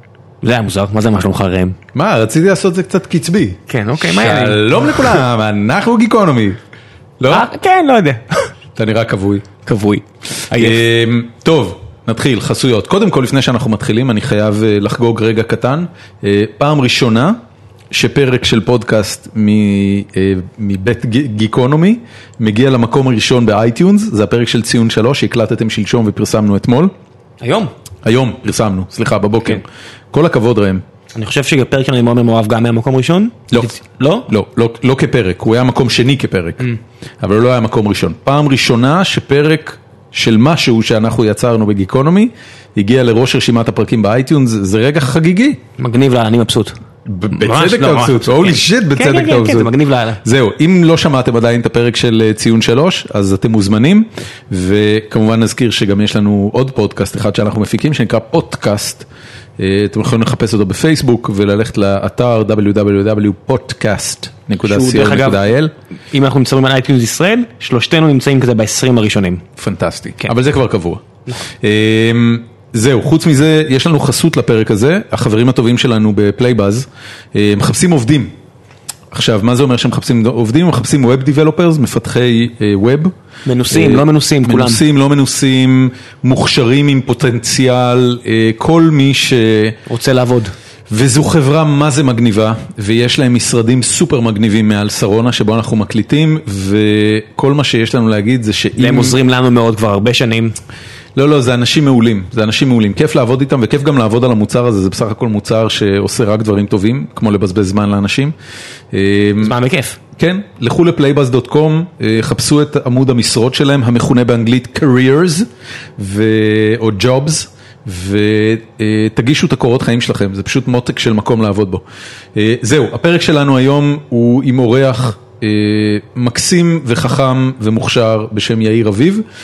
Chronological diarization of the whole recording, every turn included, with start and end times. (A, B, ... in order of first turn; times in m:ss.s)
0:00.4-0:01.8 A
0:01.9-0:06.6 B
0:03.7-0:05.2 A
0:07.2-0:07.5 B
0:07.3-0:08.5 A
0:08.8-0:09.5 B
0:09.6-0:10.8 A
0:10.5-0:17.4 B
0:17.9-0:26.9 B
0:27.4-0:27.7 A
0:28.0-0:30.8 B
0:31.1-0:34.3 A
0:34.3-0:45.6 B
0:45.8-0:46.8 A
0:47.1-0:59.1 B
0:47.3-0:50.2 A
0:59.6-1:05.7 B
1:04.6-1:05.6 A
1:06.1-1:09.4 A
1:09.6-1:18.3 B
1:19.1-1:23.1 B
1:23.4-1:24.8 A
1:23.7-1:29.8 B
1:29.9-1:30.5 A
1:30.9-1:39.2 B
1:38.8-1:40.6 A
1:41.2-1:48.3 B
1:48.9-1:49.5 B
1:49.4-1:50.0 A
1:50.2-2:01.8 B
2:02.3-2:09.2 B